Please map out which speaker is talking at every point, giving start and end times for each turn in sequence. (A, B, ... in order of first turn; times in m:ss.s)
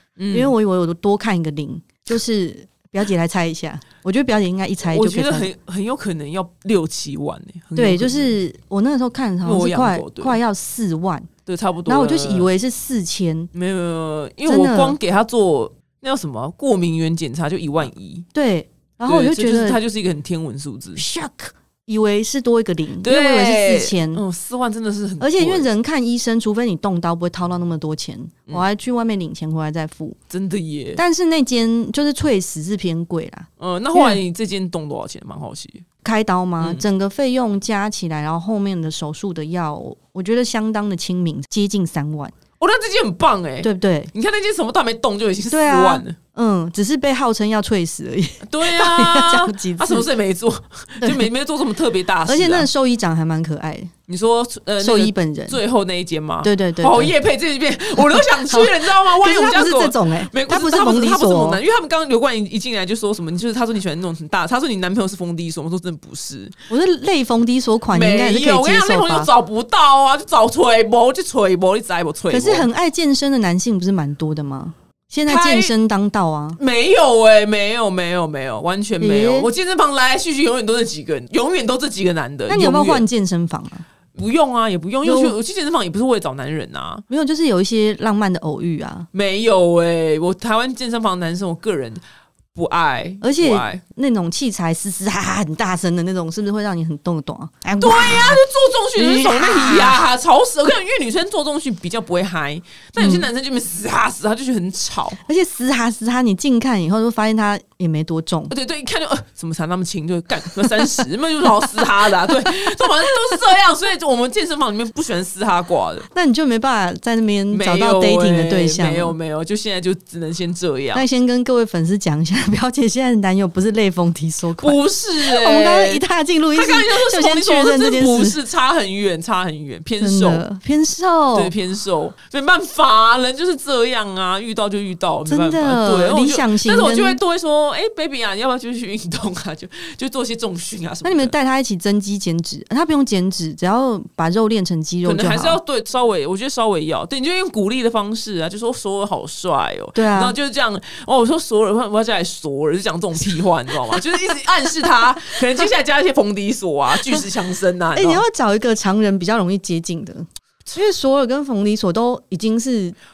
0:00.2-0:00.5 A
0:00.3-0:05.5 B
0:04.8-0:08.4 A
0:07.8-0:11.3 B
0:09.4-0:10.4 A
0:11.5-0:12.5 A
0:11.9-0:13.5 B
0:13.5-0:18.3 A
0:14.5-0:15.0 B
0:18.3-0:19.8 B
0:19.1-0:21.0 A
0:21.0-0:24.2 B
0:23.0-0:25.7 A
0:25.2-0:30.2 B
0:30.3-0:31.0 A
0:31.0-0:34.2 B
0:33.6-0:35.8 A
0:36.0-0:42.3 B
0:42.6-0:46.2 A
0:43.6-0:44.1 B
0:45.5-0:50.1 B
0:48.4-0:52.7 A
0:51.0-0:51.3 B
0:52.3-0:53.9 B
0:54.1-1:06.6 A
0:54.8-0:55.6 B
0:56.4-0:57.1 B
0:58.0-1:01.6 B
1:06.7-1:09.3 B
1:07.9-1:12.7 A
1:12.3-1:16.6 B
1:15.3-1:15.7 A
1:16.6-1:23.0 A
1:19.0-1:19.5 B
1:22.5-1:23.8 B
1:24.1-1:27.0 A
1:25.0-1:25.4 B
1:27.1-1:29.1 B
1:29.1-1:32.0 A
1:32.5-1:33.8 A
1:33.2-1:38.4 B
1:37.8-1:45.2 A
1:39.0-1:40.0 B
1:43.0-1:43.3 B
1:45.2-1:48.5 B
1:48.5-1:56.1 A
1:50.6-1:51.0 B
1:51.7-1:53.1 B
1:56.1-1:59.2 B
1:57.5-2:01.0 A
2:00.9-2:08.4 B
2:04.6-2:10.4 A
2:10.0-2:11.5 B
2:11.3-2:21.3 A
2:15.3-2:17.2 B
2:21.0-2:25.6 B
2:25.0-2:38.2 A
2:30.0-2:30.4 B
2:38.0-2:43.0 B